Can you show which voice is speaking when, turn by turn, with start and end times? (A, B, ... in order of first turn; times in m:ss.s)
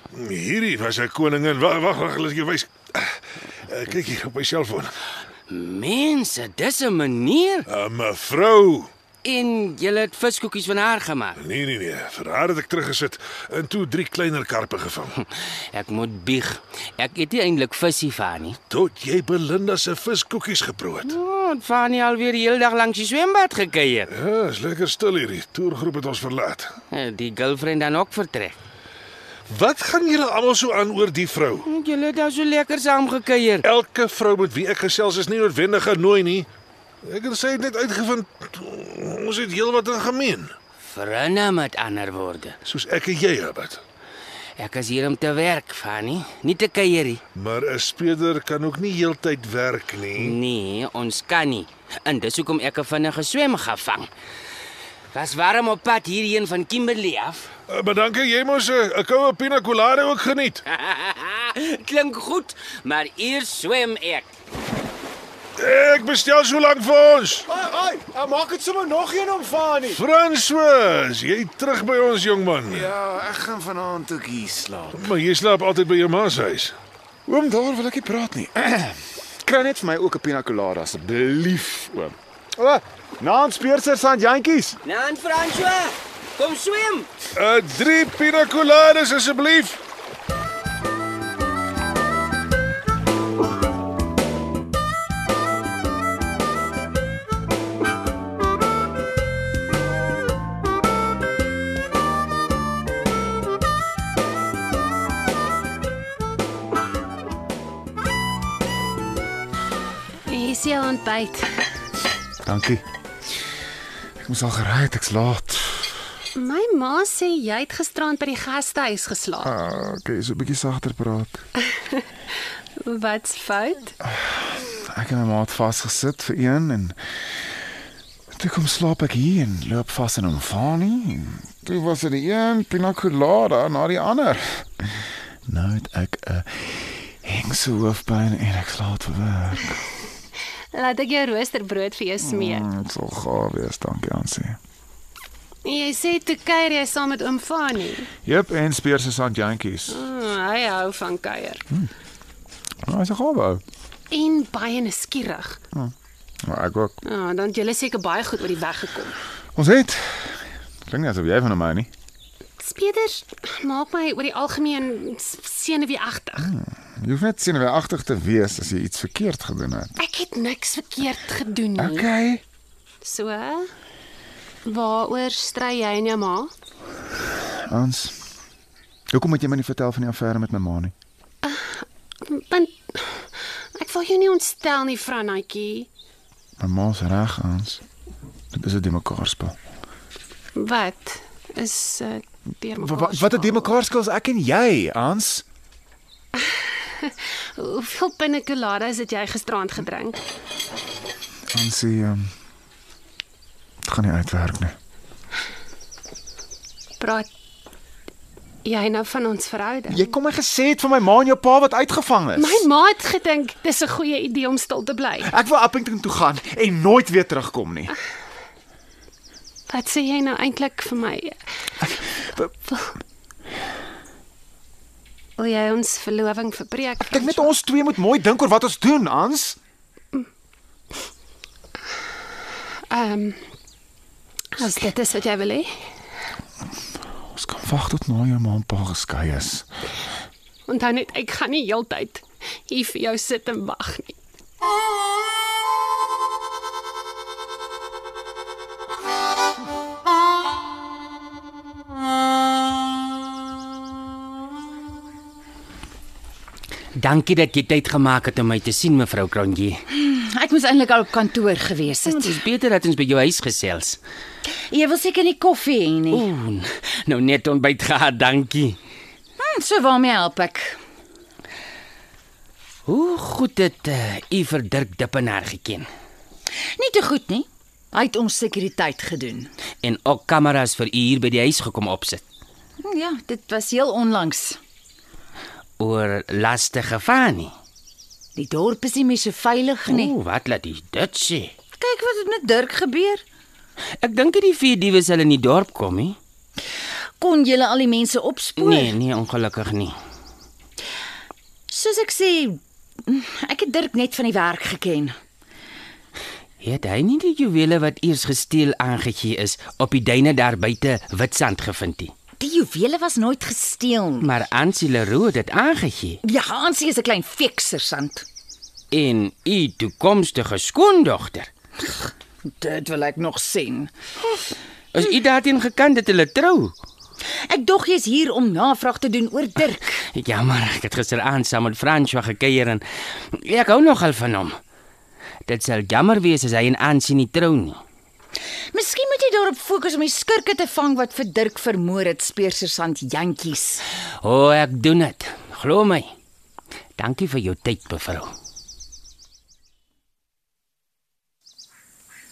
0:00.1-0:04.9 A
0:05.5-0:07.6 B
0:07.7-0:08.9 A
0:09.2-0:11.4 B
0:11.4-0:15.1 A
0:15.7-0:18.6 B
0:18.7-0:21.1 A
0:21.0-0:24.1 B
0:24.1-0:26.7 A
0:26.9-0:28.6 B
0:29.5-0:31.6 A
0:31.6-0:33.6 B
0:33.6-0:36.5 A
0:37.0-0:40.5 A
0:40.8-0:42.6 B
0:42.6-0:43.8 A
0:44.6-0:47.2 B
0:47.3-0:50.4 A
0:50.2-0:54.1 B
0:55.1-0:57.5 B
0:57.7-1:00.6 A
1:00.7-1:04.3 B
1:05.6-1:07.4 A
1:07.5-1:10.0 C
1:09.8-1:12.9 A
1:12.7-1:15.1 C
1:14.9-1:16.7 A
1:17.3-1:24.8 C
1:24.8-1:27.1 B
1:27.3-1:29.8 A
1:50.3-1:51.5 D
1:52.4-1:52.8 C
1:54.2-1:55.9 C
1:56.3-1:59.5 D
1:59.4-2:01.4 C
2:01.7-2:02.0 D
2:02.8-2:03.9 D
2:04.0-2:07.0 C
2:08.3-2:19.8 C
2:20.7-2:22.7 D
2:22.2-2:24.6 C
2:25.6-2:28.1 D
2:28.2-2:30.0 C
2:29.9-2:31.6 D
2:32.9-2:33.6 C
2:34.1-2:35.6 D
2:36.4-2:37.0 C
2:37.0-2:39.2 D
2:39.6-2:41.9 C
2:42.6-2:46.5 D
2:46.4-2:49.9 C
2:50.0-2:52.1 D
2:51.8-2:52.4 C
2:53.0-2:53.7 D
2:54.6-2:56.5 D
2:57.6-2:58.2 C
2:59.1-3:00.9 C
3:01.4-3:05.9 D
3:06.6-3:07.8 C
3:08.5-3:09.6 C
3:10.6-3:13.8 D
3:12.8-3:15.4 C
3:17.0-3:20.2 D
3:21.5-3:22.3 C
3:23.8-3:24.7 C
3:27.0-3:27.3 D
3:28.6-3:30.1 D
3:29.9-3:32.6 C
3:32.3-3:35.3 D
3:35.2-3:37.9 C
3:39.7-3:41.4 D
3:42.5-3:43.0 D
3:45.4-3:47.5 D
3:47.1-3:49.6 C
3:52.9-3:53.4 D
3:54.5-3:55.7 D
3:57.3-3:59.7 C
4:00.7-4:04.2 D
4:16.9-4:19.8 B
4:19.9-4:22.4 E
4:22.0-4:24.0 B
4:24.7-4:26.2 E
4:26.1-4:28.8 B
4:29.4-4:30.8 E
4:32.9-4:35.9 B
4:36.8-4:39.5 E
4:39.8-4:42.2 B
4:42.8-4:44.6 E
4:45.8-4:47.5 B
4:48.4-4:50.1 E
4:49.8-4:51.5 B
4:51.8-4:53.2 E
4:54.0-4:56.2 B
4:57.2-4:58.9 E
4:58.6-4:59.9 B
5:01.7-5:05.2 E
5:06.6-5:12.1 B
5:12.4-5:14.2 E
5:14.2-5:16.2 B
5:16.2-5:18.2 E
5:18.9-5:21.5 B
5:22.6-5:23.9 E
5:24.9-5:26.7 B
5:27.5-5:29.9 E
5:30.1-5:34.6 B
5:35.4-5:37.8 B
5:38.7-5:43.8 E
5:44.2-5:46.1 B
5:47.0-5:48.3 B